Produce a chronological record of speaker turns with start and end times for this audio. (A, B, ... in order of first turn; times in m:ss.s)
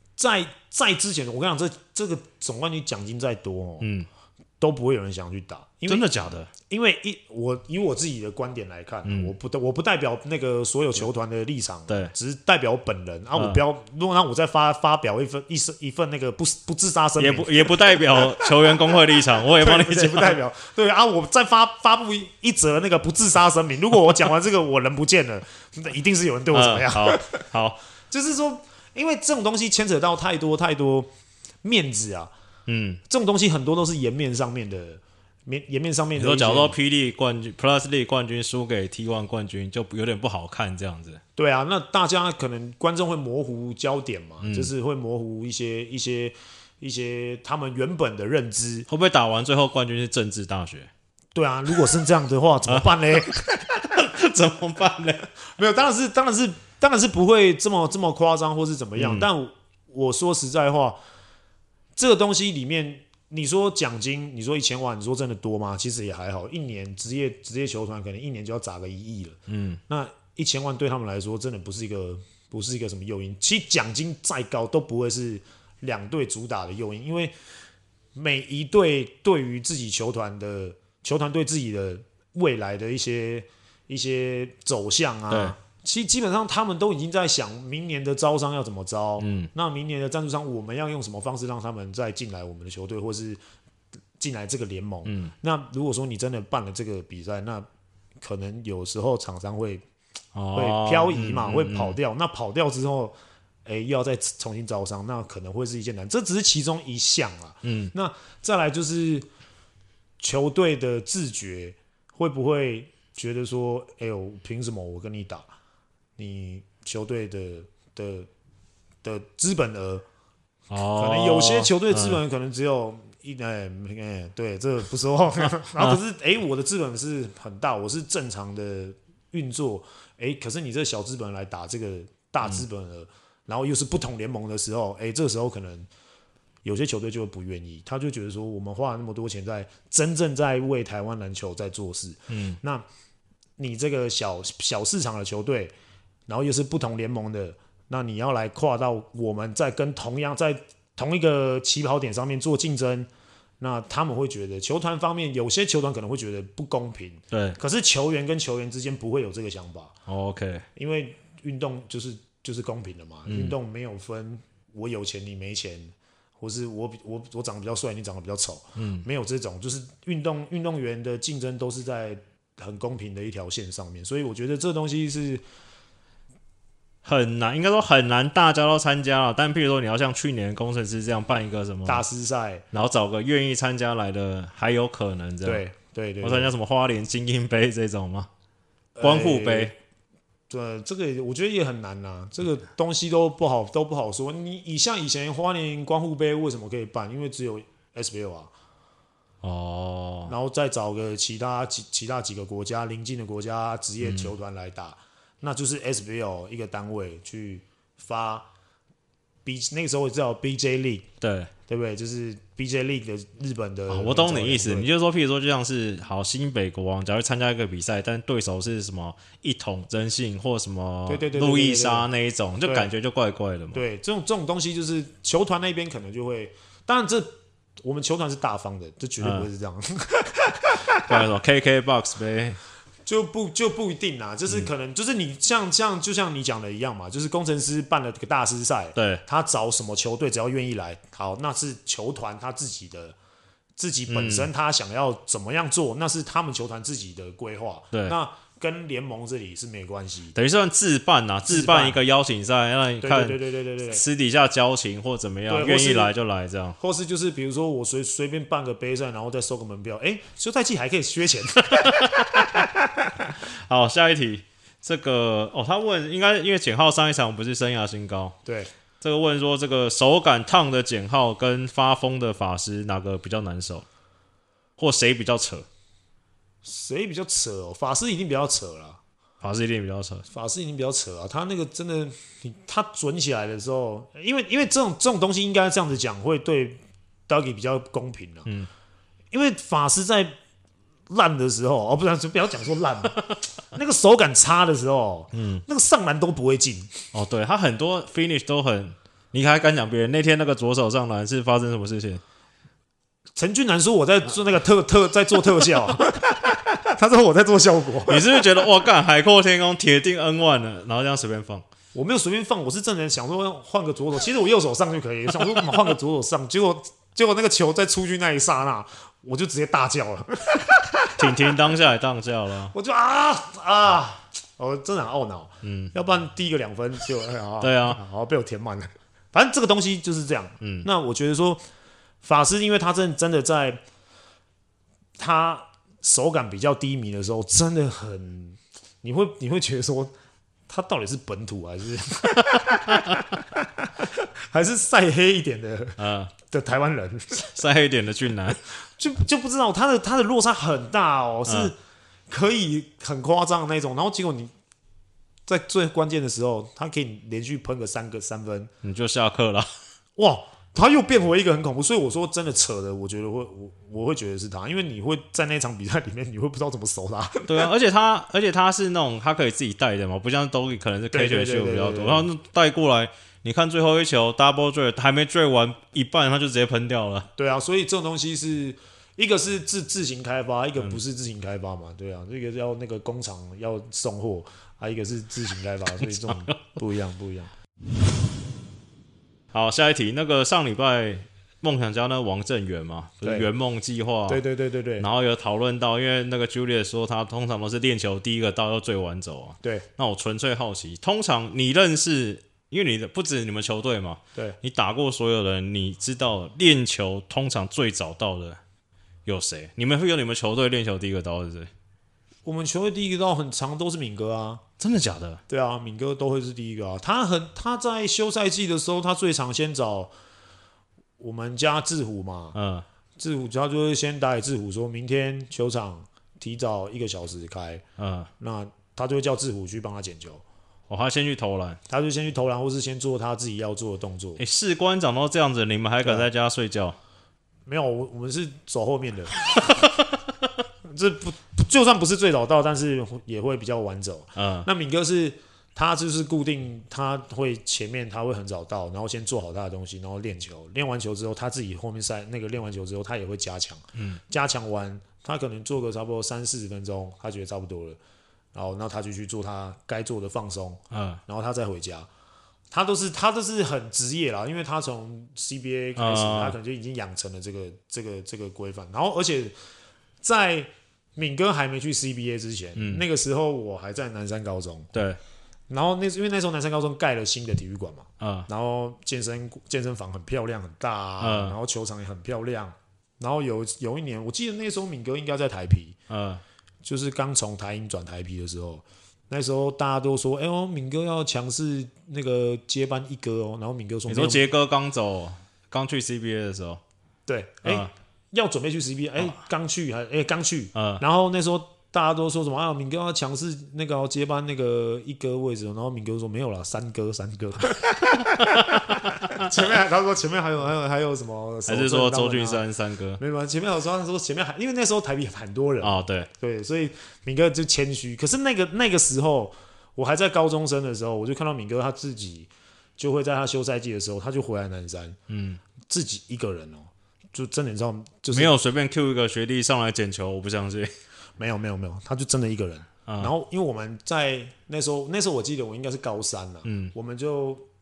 0:00.2-0:03.9 A
0:03.8-0:04.1 B
0:04.6-0:18.8 A
0:05.9-0:06.5 B
0:09.0-0:09.3 B
0:11.9-0:12.1 B
0:17.2-0:20.4 B
0:19.4-0:27.4 A
0:26.5-0:27.8 B
0:28.1-0:31.1 A
0:31.6-0:32.3 A
0:32.7-0:33.0 B
0:33.1-0:36.7 A
0:36.2-0:41.2 B
0:41.4-0:48.9 A
0:44.4-0:44.7 B
0:48.9-0:50.9 B
0:51.3-0:53.4 A
0:52.7-0:55.3 B
0:55.6-1:01.0 A
0:59.0-0:59.3 B
1:02.0-1:17.3 A
1:09.5-1:09.8 B
1:18.1-1:33.4 A
1:25.3-1:25.5 B
1:29.2-1:29.5 B
1:34.2-1:37.6 A
1:35.0-1:35.3 B
1:38.2-1:39.8 A
1:40.3-1:42.0 B
1:40.5-1:43.1 A
1:43.6-1:49.2 A
1:47.6-1:47.9 B
1:50.2-1:55.4 A
1:56.2-1:58.3 A
1:59.0-2:00.0 A
2:00.7-2:02.2 B
2:01.0-2:15.9 A
2:16.6-2:22.8 A
2:22.3-2:22.6 B
2:23.6-2:25.7 A
2:26.3-2:33.1 A
2:33.6-2:39.9 A
2:37.3-2:37.6 B
2:40.1-2:40.6 B
2:40.7-2:55.4 A
2:43.3-2:43.5 B
2:48.8-2:49.0 B
2:57.0-3:02.0 B
3:01.8-3:02.6 A
3:02.7-3:05.6 B
3:05.4-3:06.5 A
3:06.2-3:08.3 B
3:08.9-3:09.8 A
3:09.0-3:09.7 B
3:10.5-3:18.5 A
3:19.4-3:20.3 B
3:20.3-3:28.5 A
3:24.0-3:24.3 B
3:29.4-3:31.0 A
3:31.2-3:31.5 B
3:31.7-3:34.9 A
3:33.9-3:43.8 B
3:41.1-3:42.1 A
3:42.6-3:42.9 A
3:43.7-3:51.2 A
3:49.2-3:49.5 B
3:51.1-3:52.6 B
3:53.0-4:03.2 A
3:59.0-3:59.2 B
4:03.8-4:10.4 A
4:04.1-4:04.5 B
4:10.3-4:16.8 B
4:11.5-4:12.0 A
4:13.0-4:14.0 A
4:15.5-4:16.1 A
4:16.8-4:23.3 A
4:21.7-4:22.6 B
4:23.4-4:28.4 B
4:28.4-4:28.7 A
4:29.0-4:33.8 B
4:34.8-4:35.6 B
4:36.6-4:39.0 A
4:39.4-4:40.2 B
4:40.3-4:48.5 A
4:49.3-4:50.3 A
4:51.1-4:57.0 A
4:55.3-4:55.6 B
4:57.1-5:02.2 B
5:03.4-5:08.5 A
5:08.0-5:11.6 B
5:11.9-5:21.6 A
5:21.2-5:22.7 B
5:22.7-5:31.6 A
5:25.6-5:25.9 B
5:27.6-5:28.0 B
5:30.6-5:30.8 B
5:32.2-5:33.8 A
5:35.2-5:40.1 A
5:40.7-5:47.5 A
5:46.0-5:46.3 B
5:47.5-5:48.6 B
5:48.9-5:51.8 A
5:51.5-5:51.7 B
5:52.3-5:54.5 A
5:55.5-5:58.7 A
5:58.8-5:59.7 B
6:00.2-6:07.7 A
6:07.4-6:17.3 B
6:11.1-6:12.3 A
6:17.4-6:27.5 A
6:26.2-6:26.5 B
6:29.5-6:34.4 B
6:33.2-6:33.5 A
6:34.3-6:35.1 A
6:35.0-6:48.6 B
6:49.2-6:51.7 B
6:52.4-6:54.6 A
6:54.8-6:55.4 B
6:55.5-7:00.1 A
7:01.2-7:02.6 A
7:02.5-7:02.8 B
7:03.2-7:07.8 A
7:08.0-7:08.3 B
7:08.4-7:10.4 A
7:10.9-7:11.8 B
7:11.9-7:14.4 A
7:14.4-7:17.0 B
7:17.6-7:19.8 A
7:20.9-7:38.0 A
7:24.4-7:24.7 B
7:38.5-7:42.1 A
7:40.9-7:41.2 B
7:42.7-7:49.5 A
7:46.0-7:46.6 B
7:50.2-7:54.9 A
7:52.8-7:53.0 B
7:54.9-7:55.2 B
7:55.7-8:06.0 A
7:58.2-7:58.5 B
8:01.2-8:01.6 B
8:06.1-8:06.4 B
8:06.8-8:14.4 A
8:14.1-8:16.8 B
8:17.3-8:32.6 A
8:17.6-8:17.9 B
8:20.7-8:21.0 B
8:28.3-8:29.5 B
8:31.6-8:33.2 B
8:33.2-8:45.2 A
8:35.8-8:36.3 B
8:45.3-8:45.6 B
8:45.8-8:48.5 A
8:48.3-8:50.9 B
8:51.4-8:57.6 A
8:53.1-8:53.3 B
8:56.6-8:56.9 B